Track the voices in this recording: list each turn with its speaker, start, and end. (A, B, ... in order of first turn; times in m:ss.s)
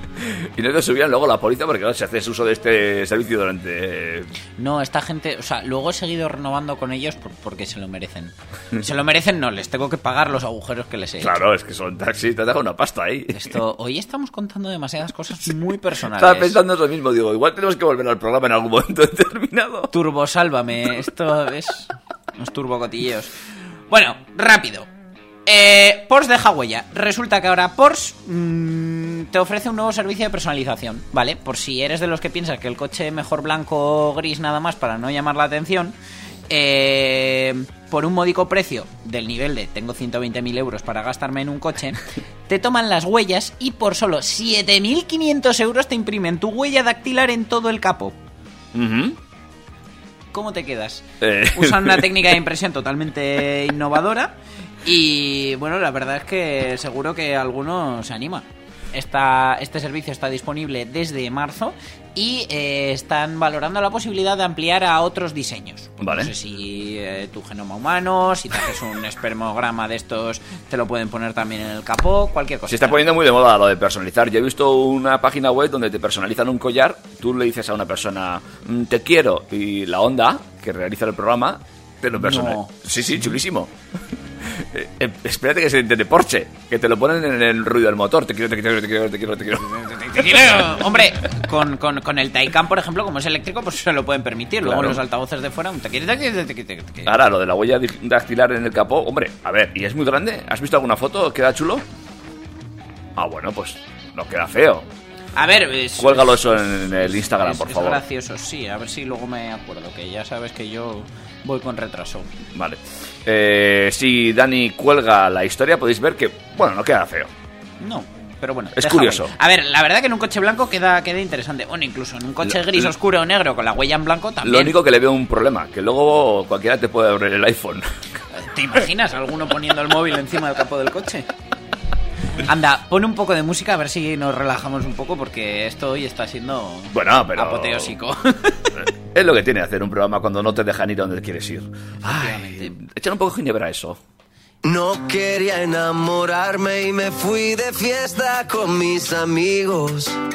0:00.2-0:04.3 A
0:04.6-0:11.4 B
0:11.2-0:13.6 A
0:13.3-0:16.6 B
0:16.1-0:19.9 A
0:19.9-0:23.3 B
0:23.9-0:24.9 B
0:25.4-0:35.9 B
0:36.5-0:48.1 B
0:48.7-0:49.2 A
0:50.3-0:54.3 B
0:51.2-0:52.2 A
0:54.8-1:13.0 B
1:06.0-1:06.3 A
1:12.7-1:23.7 A
1:22.2-1:22.7 B
1:24.4-1:30.6 A
1:29.7-1:37.1 B
1:34.6-1:35.0 A
1:37.0-1:41.8 A
1:43.2-1:44.8 A
1:45.4-1:52.3 B
1:46.0-1:48.0 A
1:52.5-1:57.3 A
1:57.8-2:04.8 B
1:58.7-1:59.3 A
2:02.4-2:02.9 A
2:04.4-2:07.9 A
2:08.3-2:11.3 B
2:12.4-2:18.7 B
2:16.9-2:17.9 A
2:18.8-2:24.0 A
2:22.0-2:22.7 B
2:24.6-2:30.1 C